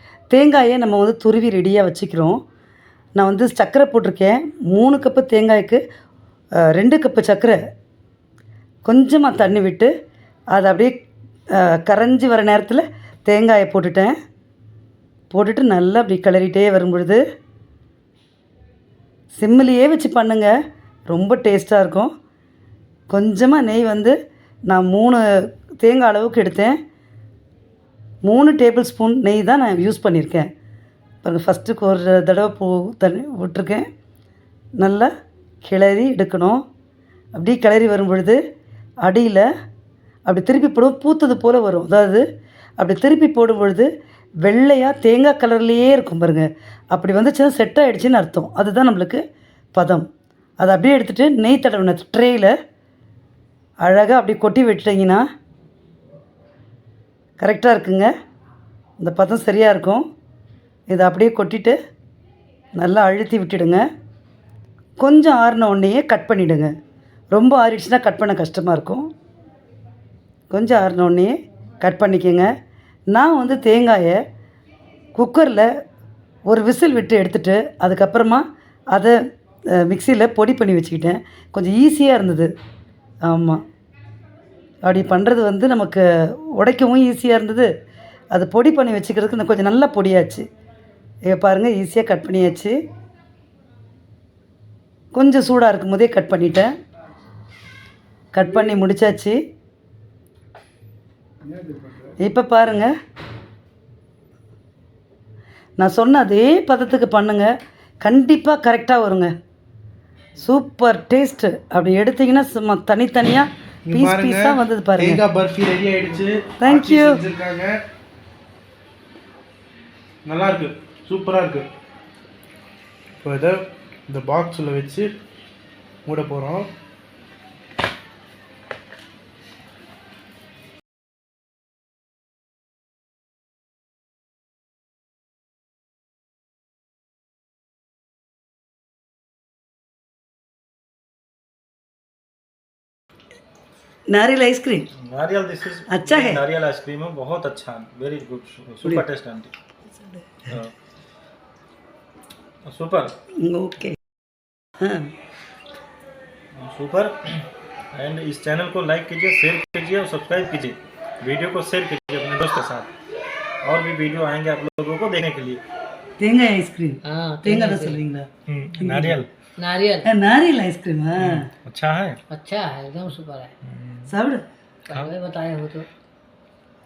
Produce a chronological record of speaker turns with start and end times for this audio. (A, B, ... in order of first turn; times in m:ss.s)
0:00.3-0:02.4 A
0:03.2-0:05.8 A
0:06.6-0:07.6 A
0:08.8-0:09.9 A
0:10.5-0:10.9 A
0:11.5-0:14.1 A
0:15.3-0:17.2 A
0:19.3-0:20.5 A
0:21.1-0:22.1 A
0:23.1-0:24.1 A
0:24.7-0:25.2 A
0:25.8-0:26.8 A
0:28.2-0:30.5 A
0:31.2-0:33.9 A
0:34.8-0:35.1 A
0:35.6-0:36.6 A
0:37.3-0:38.4 A
0:39.0-0:39.5 A
0:40.2-0:42.2 A
0:42.8-0:43.9 A
0:44.4-0:49.2 A
0:49.7-0:50.1 A
0:50.6-0:52.5 A
0:53.8-0:55.2 A
0:57.4-0:58.1 A
0:59.0-1:00.0 A
1:00.9-1:01.8 A
1:02.8-1:03.8 A
1:05.0-1:06.7 A
1:07.3-1:09.1 A
1:10.5-1:12.5 A
1:13.1-1:14.2 A
1:15.1-1:15.7 A
1:16.5-1:19.2 A
1:19.8-1:22.5 A
1:23.2-1:23.6 A
1:24.8-1:27.7 A
1:28.3-1:30.4 A
1:31.3-1:32.8 A
1:35.1-1:36.7 A
1:38.3-1:39.4 A
1:42.2-1:42.9 A
1:45.8-1:47.5 A
1:48.0-1:49.3 A
1:50.4-1:55.2 A
1:53.8-1:57.8 B
1:56.6-1:57.2 A
2:00.2-2:01.7 B
2:03.2-2:05.1 B
2:06.0-2:06.7 B
2:24.1-2:24.9 A
2:24.9-2:29.5 C
2:25.9-2:26.4 A
2:30.5-2:30.7 C
2:32.6-2:33.1 C
2:33.4-2:34.0 A
2:34.8-2:35.1 A
2:36.5-2:42.9 C
2:43.6-2:45.6 C
2:46.2-2:49.2 A
2:47.0-2:48.0 D
2:48.4-2:49.3 C
2:49.6-2:50.1 D
2:50.0-2:51.5 A
2:51.2-2:52.2 C
2:52.3-2:53.5 D
2:53.6-2:54.1 C
2:54.1-2:54.4 A
2:54.8-2:55.9 D